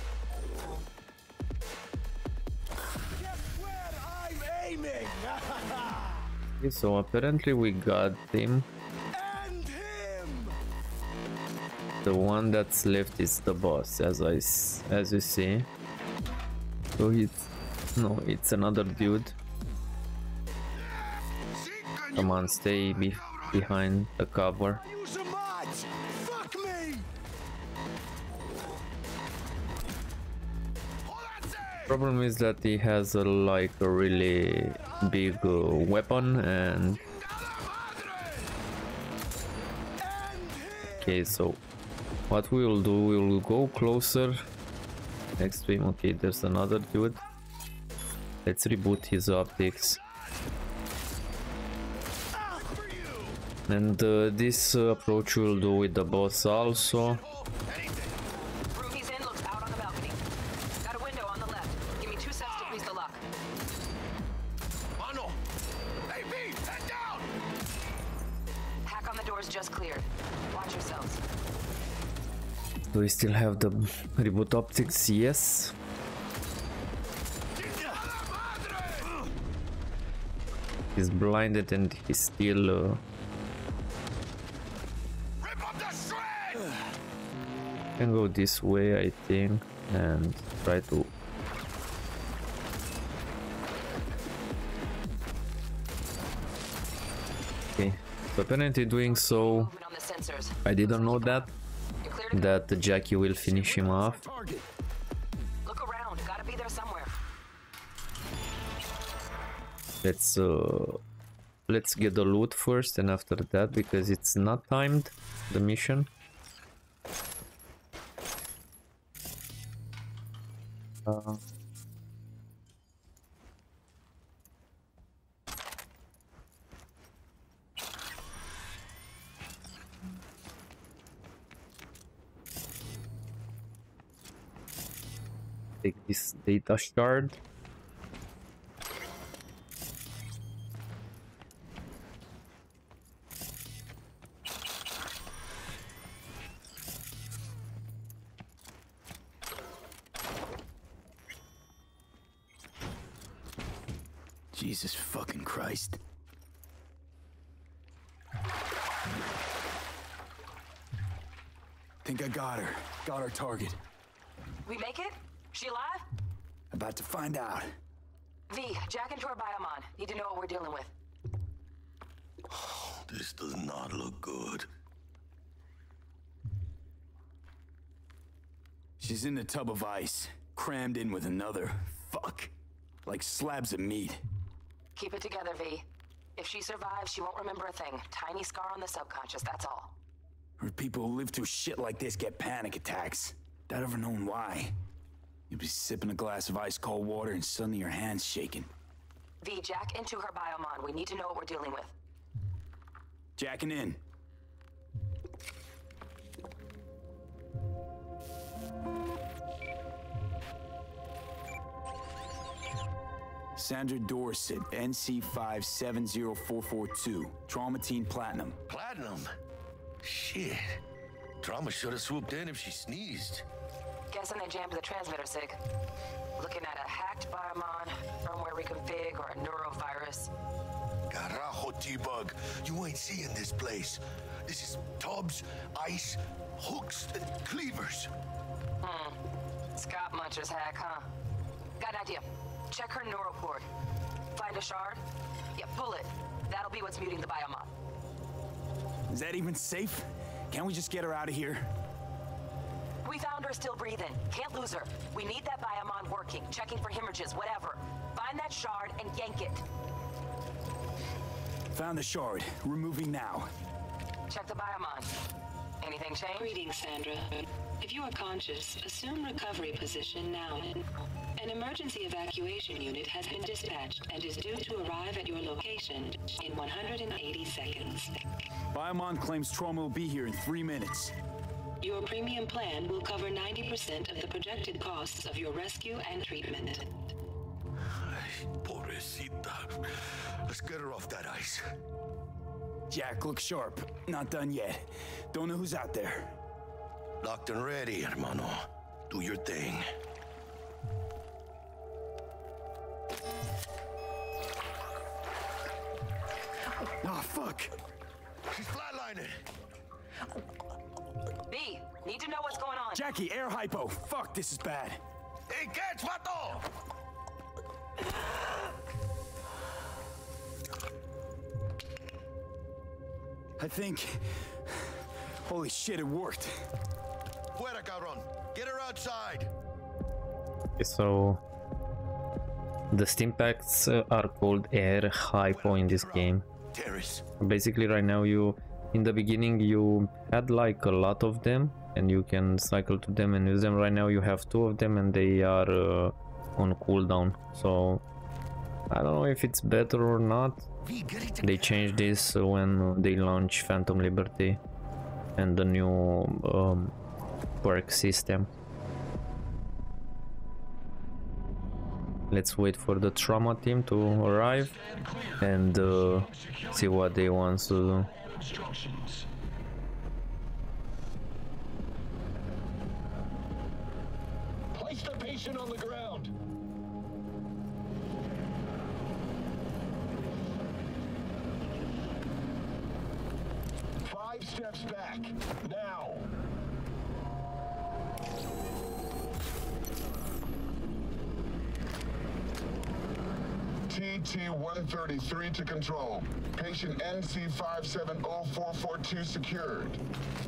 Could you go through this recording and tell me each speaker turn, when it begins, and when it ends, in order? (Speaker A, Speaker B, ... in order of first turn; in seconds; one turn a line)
Speaker A: 3.2-6.2
Speaker B: 6.6-8.7
Speaker A: 9.1-10.6
Speaker B: 12.0-15.7
Speaker B: 17.0-19.3
Speaker A: 21.6-23.4
Speaker B: 22.1-24.8
Speaker A: 24.8-27.1
Speaker A: 31.1-32.0
Speaker B: 31.9-37.0
Speaker A: 35.0-36.0
Speaker A: 36.6-38.5
Speaker A: 40.0-41.2
Speaker B: 41.0-41.6
Speaker B: 42.3-44.4
Speaker B: 45.4-47.2
Speaker B: 48.5-50.0
Speaker A: 52.3-53.4
Speaker B: 53.7-57.2
Speaker C: 56.7-58.1
Speaker D: 58.7-60.2
Speaker D: 60.8-63.2
Speaker C: 65.0-65.4
Speaker C: 66.1-67.3
Speaker D: 68.8-71.2
Speaker B: 72.9-75.7
Speaker A: 77.6-77.9
Speaker B: 81.0-83.0
Speaker C: 85.6-86.5
Speaker B: 88.0-91.1
Speaker B: 97.8-99.7
Speaker D: 99.0-101.5
Speaker B: 100.7-101.5
Speaker D: 102.0-102.6
Speaker B: 102.3-104.2
Speaker A: 103.6-104.3
Speaker E: 103.9-104.6
Speaker D: 105.7-107.1
Speaker B: 110.0-111.0
Speaker B: 111.7-116.1
Speaker B: 121.1-121.4
Speaker B: 135.8-137.4
Speaker E: 154.5-156.0
Speaker E: 162.0-163.8
Speaker D: 164.7-166.1
Speaker E: 166.7-167.7
Speaker D: 168.5-170.9
Speaker C: 172.5-174.7
Speaker E: 179.0-182.5
Speaker E: 183.1-184.2
Speaker D: 185.0-185.8
Speaker D: 186.4-189.9
Speaker E: 190.6-194.8
Speaker E: 195.5-198.7
Speaker D: 199.4-201.9
Speaker E: 203.4-204.0
Speaker E: 213.6-218.6
Speaker C: 218.7-219.3
Speaker C: 220.0-220.8
Speaker C: 221.4-223.4
Speaker D: 224.1-225.6
Speaker D: 226.4-230.3
Speaker C: 231.1-238.1
Speaker D: 238.8-239.2
Speaker D: 239.8-241.1
Speaker D: 241.8-243.7
Speaker D: 244.3-245.0
Speaker D: 245.6-247.7
Speaker E: 249.1-251.7
Speaker D: 253.0-259.6
Speaker E: 261.7-263.5
Speaker D: 264.3-265.1
Speaker D: 265.8-266.5
Speaker F: 266.4-270.9
Speaker F: 271.4-278.3
Speaker E: 278.7-281.1
Speaker F: 281.8-286.9
Speaker C: 287.9-291.6
Speaker E: 292.9-296.4
Speaker C: 297.2-299.9
Speaker E: 307.0-307.7
Speaker C: 308.5-309.4
Speaker D: 311.5-313.1
Speaker E: 312.9-315.0
Speaker C: 315.5-316.6
Speaker E: 323.6-326.6
Speaker C: 327.6-329.5
Speaker B: 330.8-331.4
Speaker B: 332.9-336.4
Speaker C: 335.5-337.2
Speaker B: 337.4-348.0
Speaker B: 348.9-350.7
Speaker C: 350.8-352.1
Speaker B: 351.4-354.6
Speaker B: 355.4-356.9
Speaker B: 357.6-358.5
Speaker B: 362.3-364.8
Speaker A: 364.7-365.4
Speaker B: 365.4-368.1
Speaker A: 368.3-369.2
Speaker G: 374.7-376.3
Speaker G: 384.1-386.3
Speaker G: 393.9-400.0